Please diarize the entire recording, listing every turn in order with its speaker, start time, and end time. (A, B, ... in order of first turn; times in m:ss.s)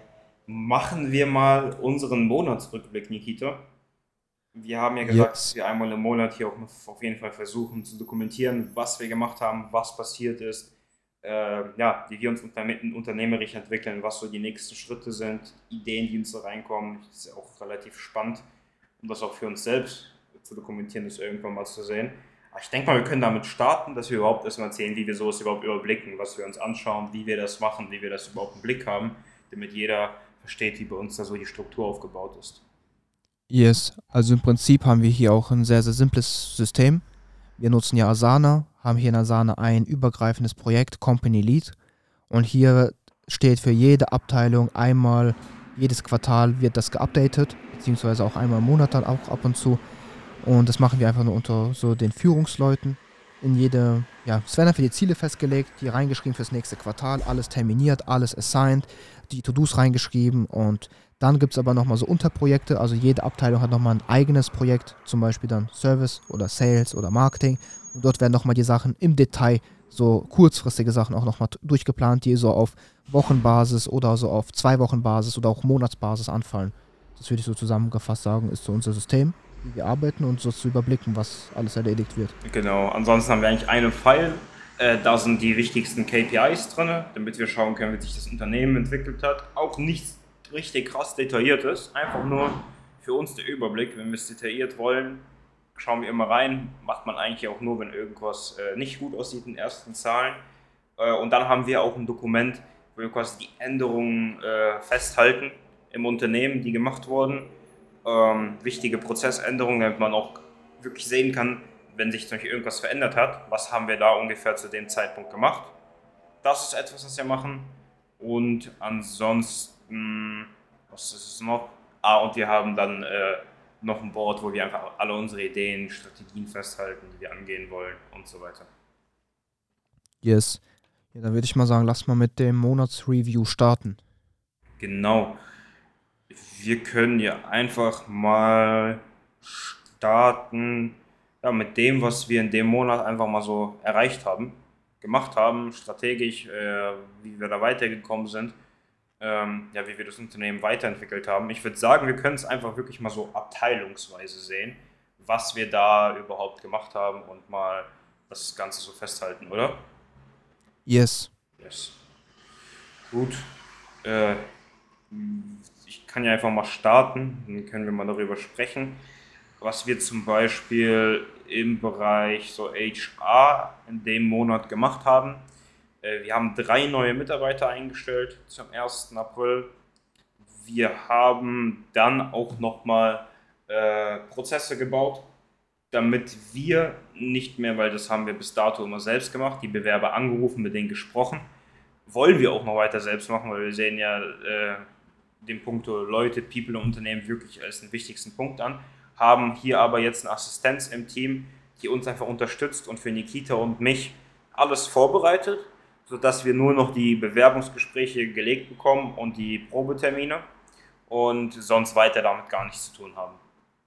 0:00.5-0:03.6 A
0:04.5-0:18.4 A
0:05.0-0:05.5 B
0:19.0-0:32.6 A
0:33.5-0:37.0 B
0:37.6-0:41.8 B
0:42.3-0:49.8 B
0:50.4-1:22.4 B
1:22.4-1:35.2 A
1:35.8-1:40.4 A
1:41.0-1:47.5 A
1:48.0-1:55.7 A
1:56.4-2:08.7 A
2:10.2-2:10.6 B
2:11.1-2:14.0 B
2:14.8-2:15.4 A
2:16.3-2:28.6 A
2:29.2-2:39.8 A
2:40.9-2:41.3 B
2:41.6-2:42.0 A
2:43.1-2:43.5 A
2:44.0-2:44.4 A
2:45.1-2:49.0 A
2:49.6-2:55.4 A
2:56.0-2:59.7 A
3:00.5-3:05.3 A
3:05.9-3:11.5 A
3:12.1-3:14.8 A
3:15.4-3:30.4 A
3:31.1-3:33.4 A